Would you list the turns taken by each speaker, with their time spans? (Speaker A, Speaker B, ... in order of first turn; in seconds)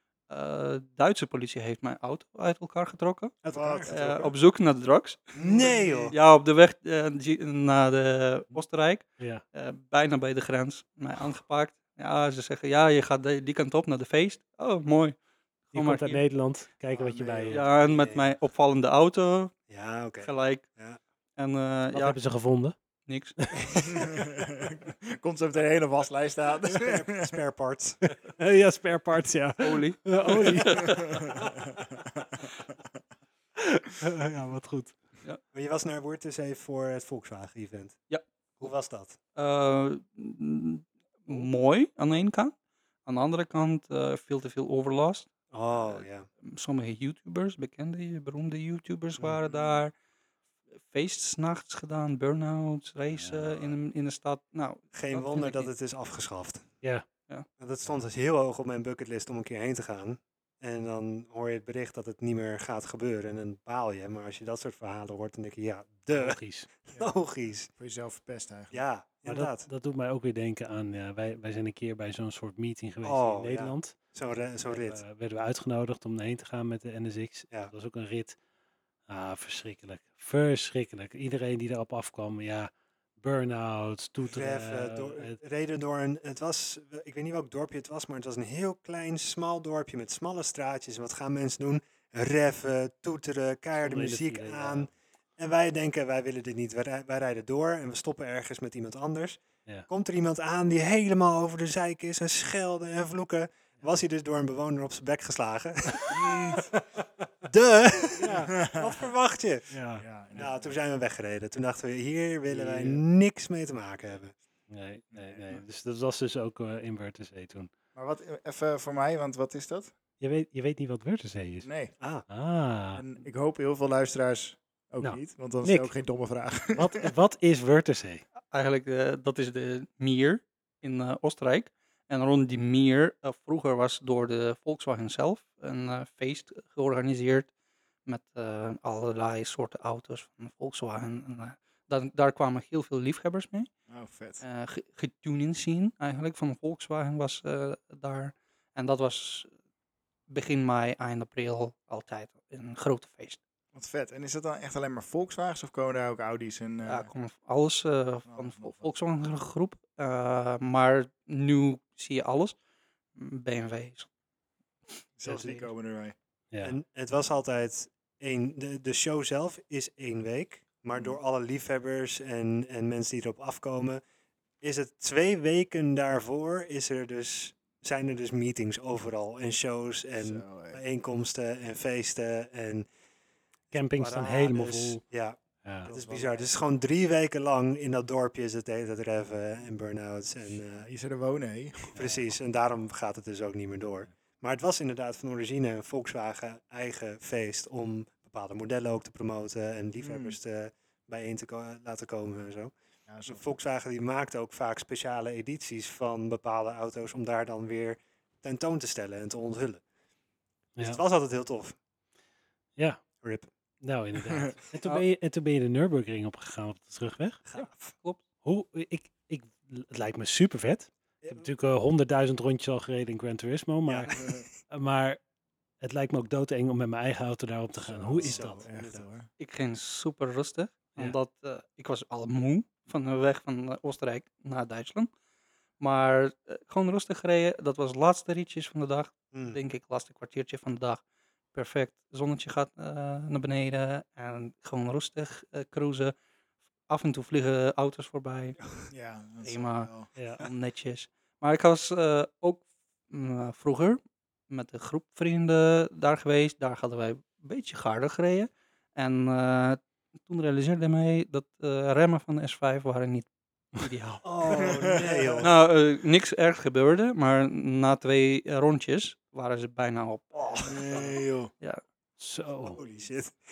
Speaker A: 0.3-5.4, 6.1-15.2, 15.7-16.2, 17.5-19.6, 20.2-20.6, 21.4-22.2, 23.1-23.3, 29.6-31.4, 39.4-42.5, 43.0-49.9, 50.9-55.7, 128.5-137.5, 138.1-143.7, 144.4-149.5, 150.3-153.4, 156.8-162.6, 163.2-164.1, 217.5-218.2, 229.4-235.1, 235.8-241.0, 241.5-246.1, 246.9-248.6, 249.4-264.2, 265.4-271.1
Speaker B: 3.4-3.9, 5.3-6.2, 16.9-18.3, 19.7-21.0, 23.6-24.0, 26.6-28.1, 35.5-38.0, 38.6-39.2, 45.5-46.3, 49.2-49.4, 54.9-56.7, 57.6-67.7, 68.7-69.7, 73.0-75.0, 84.3-106.6, 107.4-109.7, 110.3-114.3, 122.0-122.2, 166.6-174.0, 174.6-182.9, 183.7-190.9, 191.9-202.7, 203.2-209.8, 210.8-211.8, 213.2-213.5, 217.4-217.9, 221.2-221.5, 223.9-224.5, 228.1-229.0, 239.3-239.6, 264.2-265.5, 270.4-271.1, 272.7-273.4
Speaker C: 3.5-4.3, 5.4-6.1, 23.8-27.3, 30.9-31.8, 67.8-68.8, 106.1-106.7, 108.5-109.0, 110.0-110.7, 115.1-115.6, 117.9-119.9, 121.6-121.9, 123.0-127.1, 143.9-144.4, 153.7-157.1, 158.3-158.9, 165.2-166.1, 180.2-180.8, 185.8-186.5, 190.8-192.1, 200.0-200.3, 203.1-203.5, 224.1-224.4, 228.1-229.3, 248.9-250.1, 264.5-265.5, 270.6-271.5
Speaker D: 15.7-17.6, 21.9-22.7, 28.2-31.6, 33.5-35.0, 53.2-53.5, 66.1-66.7, 69.2-74.0, 74.7-78.4, 79.1-85.4, 93.8-94.9, 108.2-108.5, 109.7-110.0, 112.5-113.0, 114.7-117.7, 120.2-121.7, 122.3-123.0, 125.0-125.9, 126.7-128.2, 183.7-185.0, 185.6-185.9, 212.8-213.0, 213.8-217.4, 218.4-224.1, 224.7-225.2, 225.8-228.6, 250.2-250.4, 272.2-272.8